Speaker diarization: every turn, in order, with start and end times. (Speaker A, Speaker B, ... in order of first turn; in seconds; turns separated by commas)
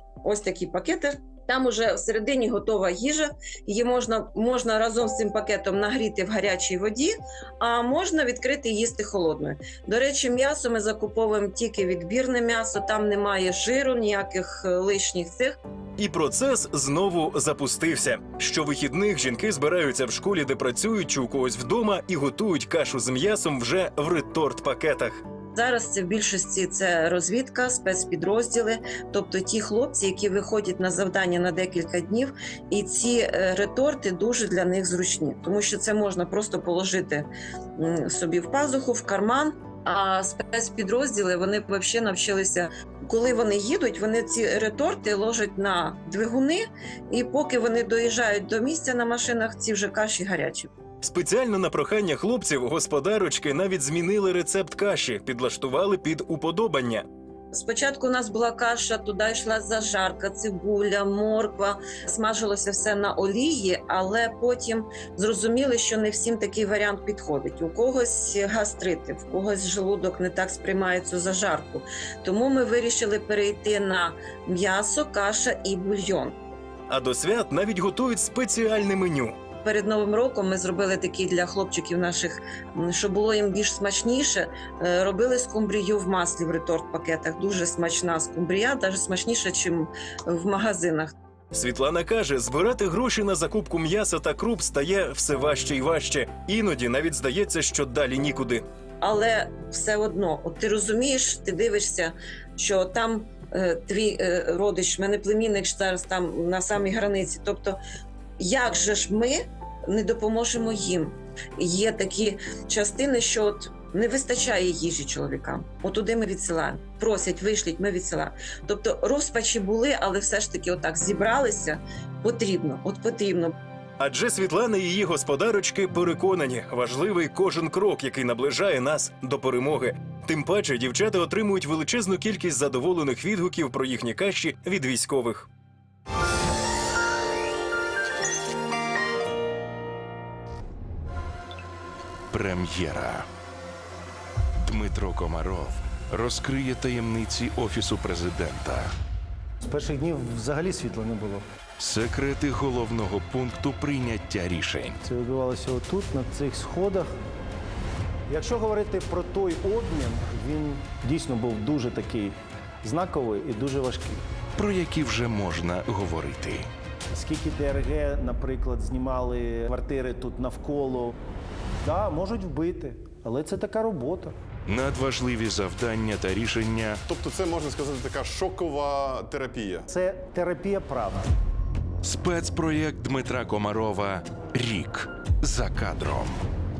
Speaker A: 0.2-15.6, Speaker B: 16.0-25.2, Speaker A: 25.5-37.3, Speaker A: 37.8-50.7, Speaker B: 51.0-57.0, Speaker A: 57.5-76.4, Speaker B: 76.9-79.4, Speaker A: 79.6-91.2, Speaker B: 91.5-98.6, Speaker A: 99.0-107.8, Speaker A: 108.4-123.5, Speaker B: 124.0-135.5, Speaker C: 142.3-143.3, Speaker C: 144.6-148.9, Speaker D: 149.7-151.4, Speaker C: 151.8-155.0, Speaker D: 155.1-157.1, Speaker D: 158.3-164.2, Speaker C: 164.6-166.7, Speaker D: 167.3-171.1, Speaker D: 171.8-174.4, Speaker C: 174.7-177.0, Speaker E: 177.1-179.9, Speaker D: 179.9-181.3, Speaker C: 182.0-186.4